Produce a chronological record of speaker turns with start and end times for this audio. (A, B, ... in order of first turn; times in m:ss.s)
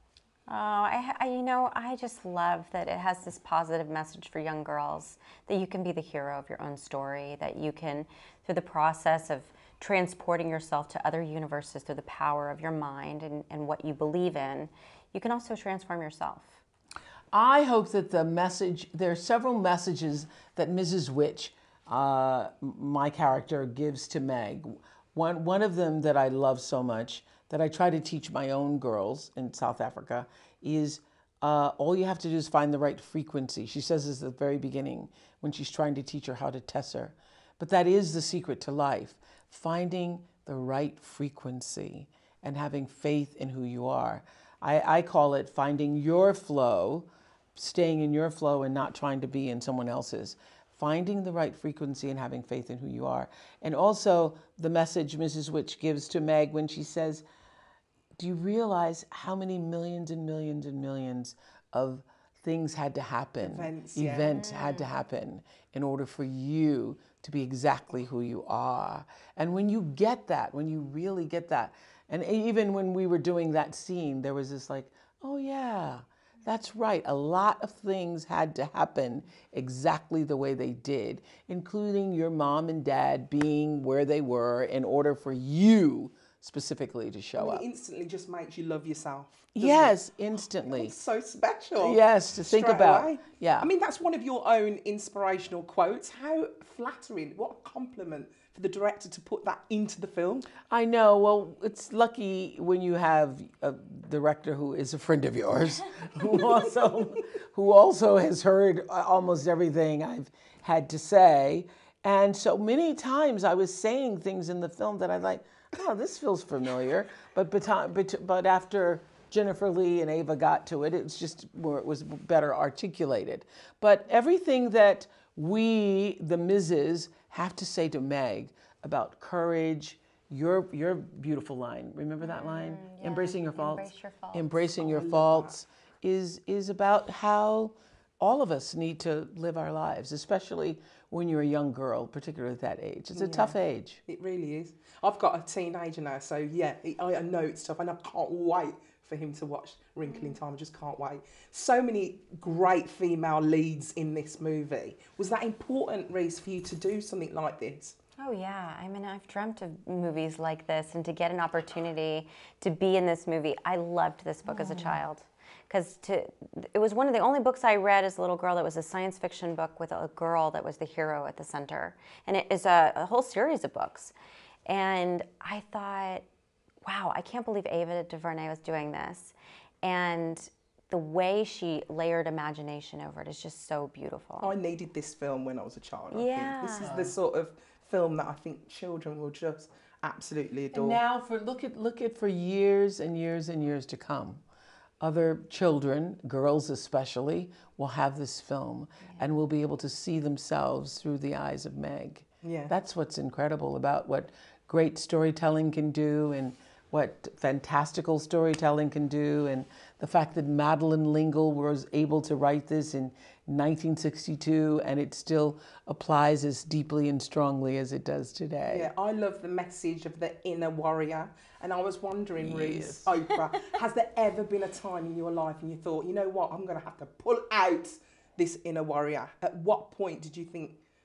0:00.5-0:16.5 A
0:17.3-0:57.2 B
0:58.2-1:27.6 B
1:03.4-1:04.3 C
1:04.2-1:04.9 A
1:27.4-1:30.0 C
1:29.5-1:30.9 B
1:30.6-1:40.5 C
1:31.8-1:33.7 B
1:40.6-2:24.0 B
2:12.2-2:14.7 A
2:14.8-2:15.6 C
2:23.1-2:38.0 C
2:30.0-2:30.4 A
2:38.2-2:54.1 A
2:54.7-2:56.2 A
2:56.8-3:04.5 A
3:04.4-3:11.0 C
3:06.1-3:07.0 A
3:06.8-3:07.2 B
3:10.7-3:14.4 B
3:15.0-3:38.9 B
3:22.4-3:22.7 C
3:38.7-3:50.8 C
3:42.4-3:43.1 B